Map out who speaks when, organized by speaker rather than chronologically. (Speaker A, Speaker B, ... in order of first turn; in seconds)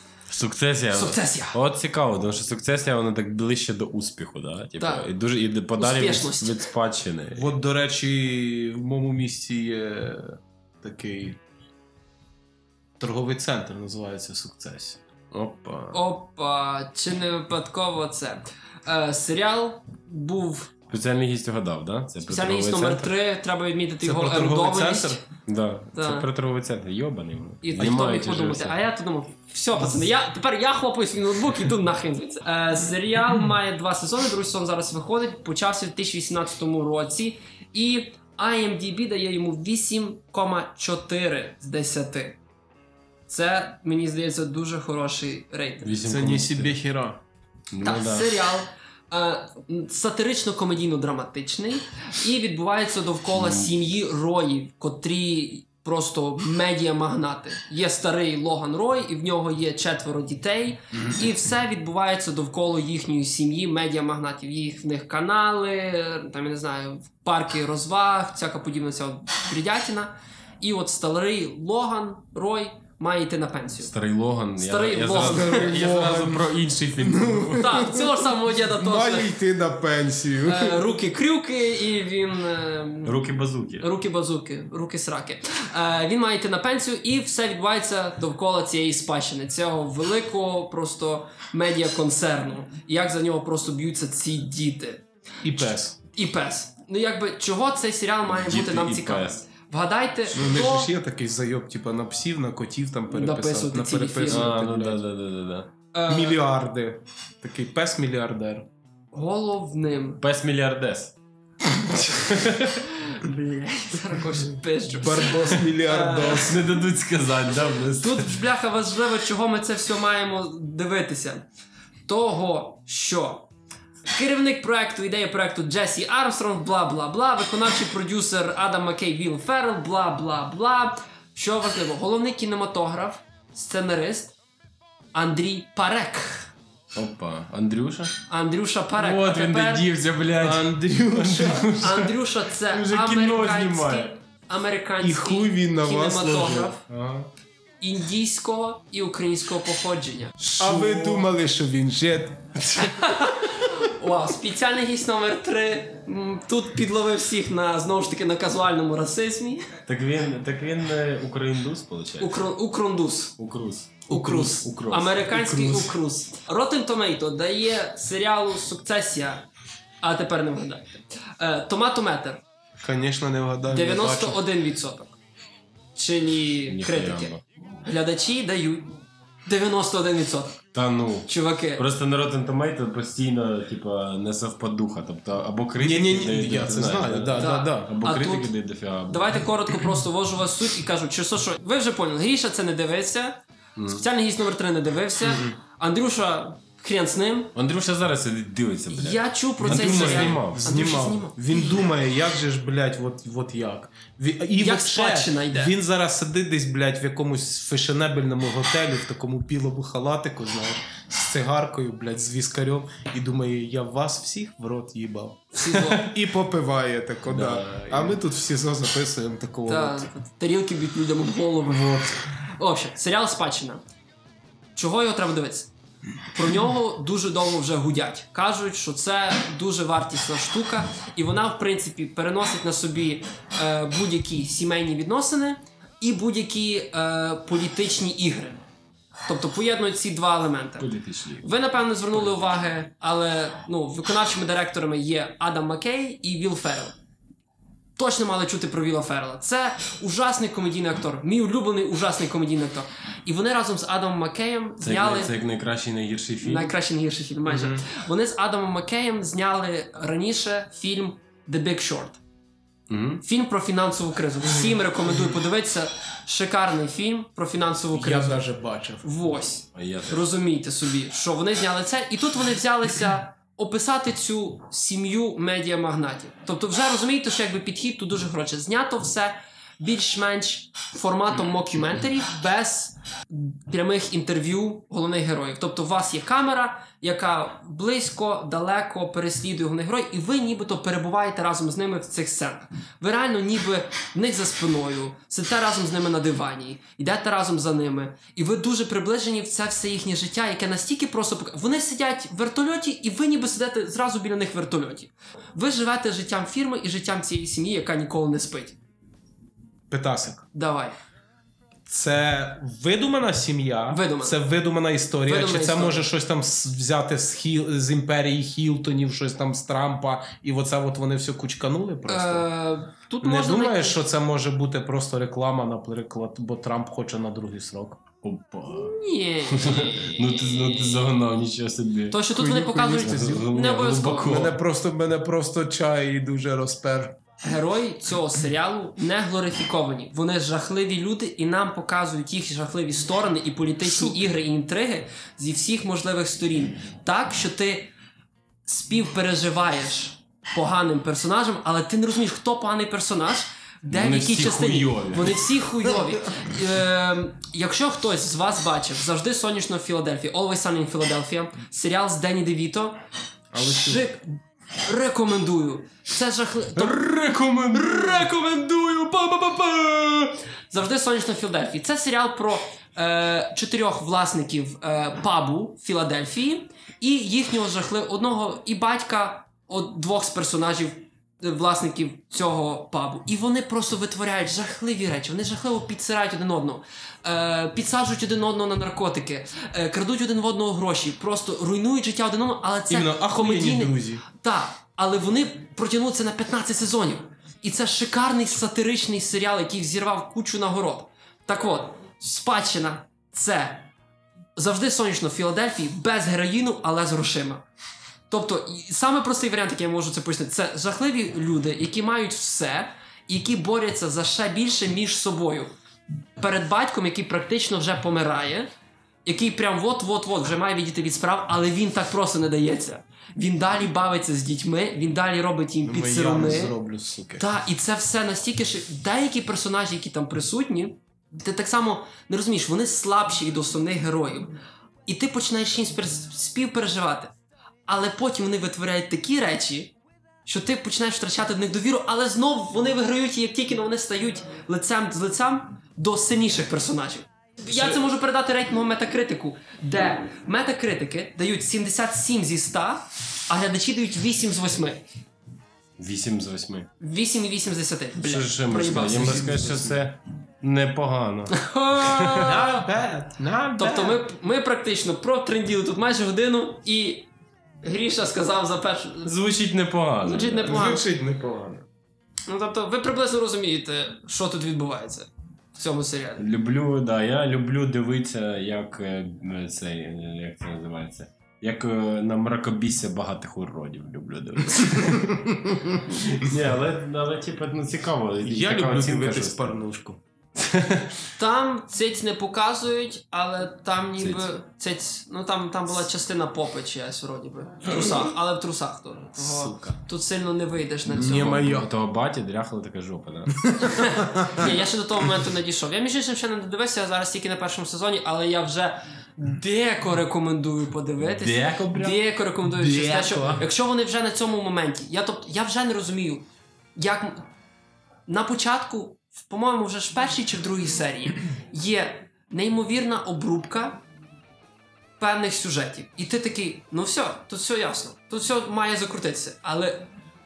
Speaker A: 0.3-7.5, 15.3-16.0, 20.9-23.1, 25.4-28.8, 45.8-46.8, 47.7-48.3, 53.3-53.7, 73.8-77.8, 83.0-83.9, 98.3-99.4, 104.2-105.7, 110.2-111.1, 111.8-112.9, 116.2-118.4, 136.9-138.2, 138.9-144.1, 146.9-147.3, 150.4-151.2, 152.7-153.0, 159.9-162.4, 163.4-165.6, 176.7-177.4, 180.7-189.4, 193.8-194.0, 197.5-200.7, 215.7-216.1, 217.3-218.2, 240.8-241.5, 242.1-242.5, 254.8-256.7, 262.9-263.2, 269.7-270.3, 328.2-334.6, 353.9-355.4, 366.8-368.3, 447.7-448.0, 456.0-456.9, 458.2-462.6, 469.2-470.9, 476.4-489.7, 490.6-491.3, 494.2-494.5, 501.2-503.8, 511.2-512.2
Speaker B: 0.9-1.6, 4.8-5.1, 5.8-6.6, 15.9-20.7, 22.2-25.2, 25.9-26.3, 27.6-42.4, 43.3-45.9, 47.8-73.9, 74.6-75.7, 77.5-79.3, 80.4-83.2, 83.8-100.9, 103.1-104.5, 105.9-106.4, 109.1-110.2, 113.0-116.5, 118.0-121.4, 122.1-123.5, 124.1-134.3, 135.1-136.5, 138.3-139.8, 141.8-146.8, 147.8-150.4, 152.8-159.7, 162.2-163.3, 164.1-169.4, 170.0-172.4, 173.7-175.2, 175.9-180.6, 181.3-181.8, 187.4-188.5, 189.1-197.5, 198.9-201.8, 204.6-205.7, 215.5-216.1, 219.7-223.8, 224.8-225.7, 226.3-238.6, 239.3-240.9, 241.4-246.9, 247.9-255.3, 256.4-262.2, 263.2-268.4, 269.0-308.8, 310.5-311.0, 313.9-314.4, 315.3-316.1, 322.1-324.0, 328.7-331.1, 332.1-334.4, 337.4-347.9, 348.6-363.0, 363.6-367.0, 367.7-403.9, 404.6-407.6, 408.3-415.7, 416.4-418.7, 419.2-426.8, 427.4-434.5, 435.1-437.3, 437.9-439.9, 440.4-455.0, 457.0-459.6, 461.5-462.8, 463.8-467.3, 467.8-469.3, 470.2-471.0, 472.5-476.4, 491.4-501.8, 503.8-517.5, 518.3-524.0, 525.2-530.1
Speaker C: 7.3-11.4, 13.0-15.0, 24.0-25.2, 46.0-47.2, 75.1-80.8, 95.4-96.0, 100.3-105.0, 106.1-108.7, 115.0-116.7, 140.4-141.9, 145.0-146.8, 150.6-152.5, 164.1-164.5, 165.3-165.8, 172.8-174.4, 185.8-187.9, 195.3-195.5, 199.6-215.4, 216.0-220.1, 257.5-257.8, 267.9-269.0, 309.9-310.4, 311.9-322.5, 323.2-328.1, 332.4-333.5, 334.2-337.2, 363.5-364.1, 392.9-394.2, 425.8-427.4, 458.9-460.0, 462.3-464.2, 470.6-471.9, 485.1-485.4, 488.4-490.2, 499.4-500.0, 501.1-501.9, 503.6-504.7, 512.7-513.6